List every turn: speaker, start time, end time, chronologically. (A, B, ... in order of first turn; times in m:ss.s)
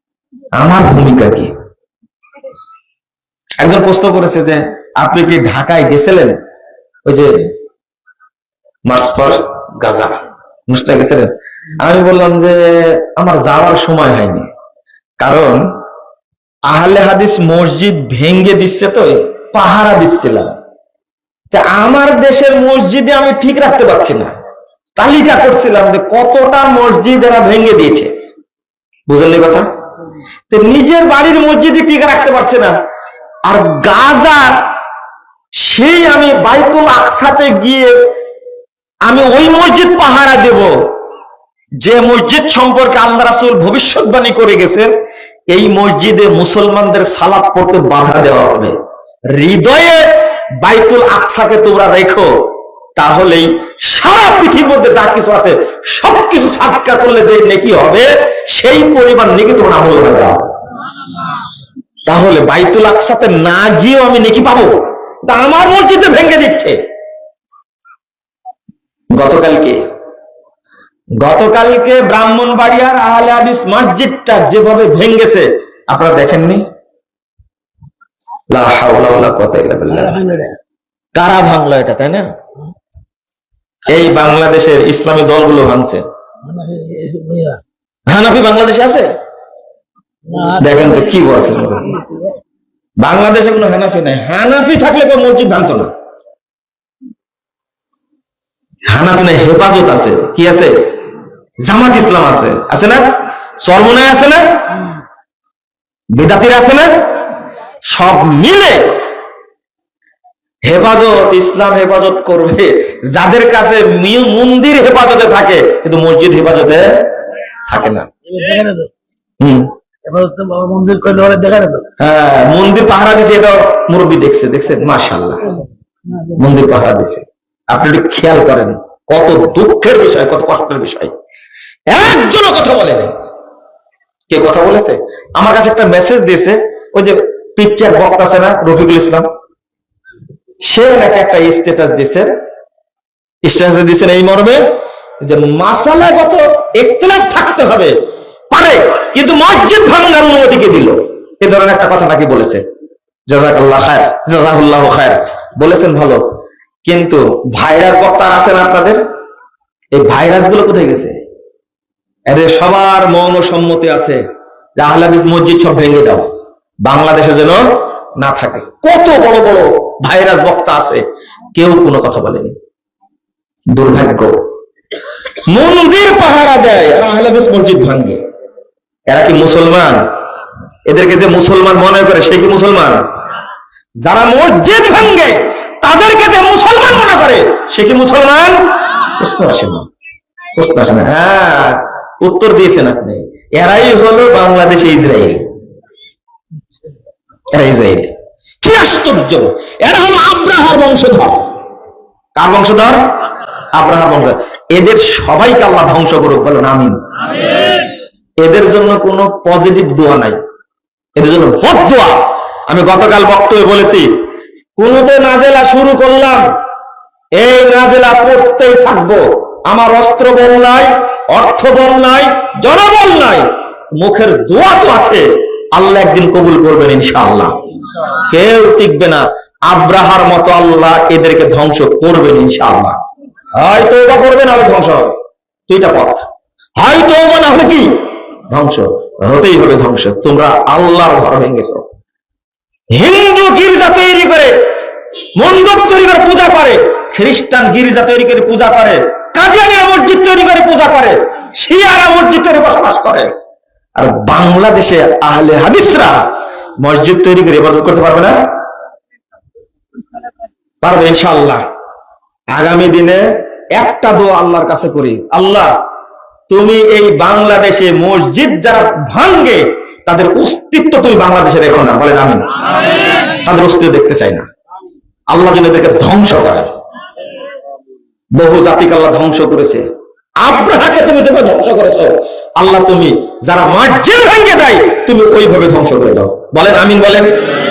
0:00.6-0:01.5 A
0:03.6-0:06.3 A
0:07.0-0:07.5 A
0:08.9-0:10.2 A
0:10.7-0:14.5 A
0:15.2-0:15.6 A
0:16.7-0:20.6 A
0:21.5-0:24.4 A
0:25.0-0:28.1 A
0:29.1-0:29.7 A
0:30.5-0:32.7 A
0:33.4-0:34.6 A
0:35.6-0:38.0 A
0:39.1-0:40.7 A
0:41.8-0:44.9 A
0:45.5-0:48.8 A
0:49.3-0:50.0 A
0:50.6-0:52.3 A
0:53.0-1:00.4 A
1:02.1-1:06.8 A
1:09.1-1:09.8 A
1:11.2-1:16.6 A
1:18.5-1:20.2 A
1:19.9-1:20.6 B
1:21.2-1:22.3 A
1:23.9-1:26.0 A
1:26.4-1:27.6 B
1:28.1-1:29.1 A
1:30.3-1:31.2 B
1:30.6-1:32.0 A
1:31.9-1:32.3 B
1:33.0-1:35.9 A
1:38.9-1:40.9 A
1:41.6-1:43.0 A
1:43.6-1:44.4 A
1:46.1-1:46.9 A
1:47.9-1:49.0 A
1:50.6-1:57.0 A
1:57.7-1:58.1 A
1:58.3-1:58.9 B
1:59.4-1:59.7 A
2:00.0-2:01.9 B
2:02.0-2:05.5 A
2:06.4-2:11.1 A
2:11.9-2:13.1 A
2:14.3-2:19.3 A
2:20.6-2:22.3 A
2:23.4-2:24.6 A
2:25.2-2:27.9 A
2:28.5-2:32.6 A
2:33.3-2:36.2 A
2:36.8-2:39.0 A
2:39.9-2:41.2 A
2:42.3-2:44.2 A
2:44.8-2:46.3 A
2:46.8-2:47.6 A
2:48.2-2:52.6 A
2:53.7-2:54.4 A
2:55.5-2:58.2 A
2:59.1-3:00.0 A
3:00.9-3:03.0 A
3:04.0-3:09.9 A
3:10.6-3:15.4 A
3:17.5-3:21.5 A
3:22.4-3:23.0 A
3:23.7-3:27.0 A
3:28.4-3:30.4 A
3:31.2-3:34.1 A
3:34.8-3:36.4 A
3:37.4-3:43.5 A
3:44.0-3:47.6 A
3:48.2-3:53.0 A
3:53.5-3:55.2 A
3:55.7-3:56.3 A
3:56.8-4:01.8 A
4:02.9-4:04.6 A
4:05.4-4:13.3 A
4:14.0-4:16.2 A
4:16.8-4:18.4 A
4:20.8-4:21.6 A
4:22.5-4:25.7 A
4:26.5-4:32.5 A
4:33.4-4:34.5 A
4:35.3-4:36.8 A
4:38.4-4:39.8 A
4:40.4-4:47.5 A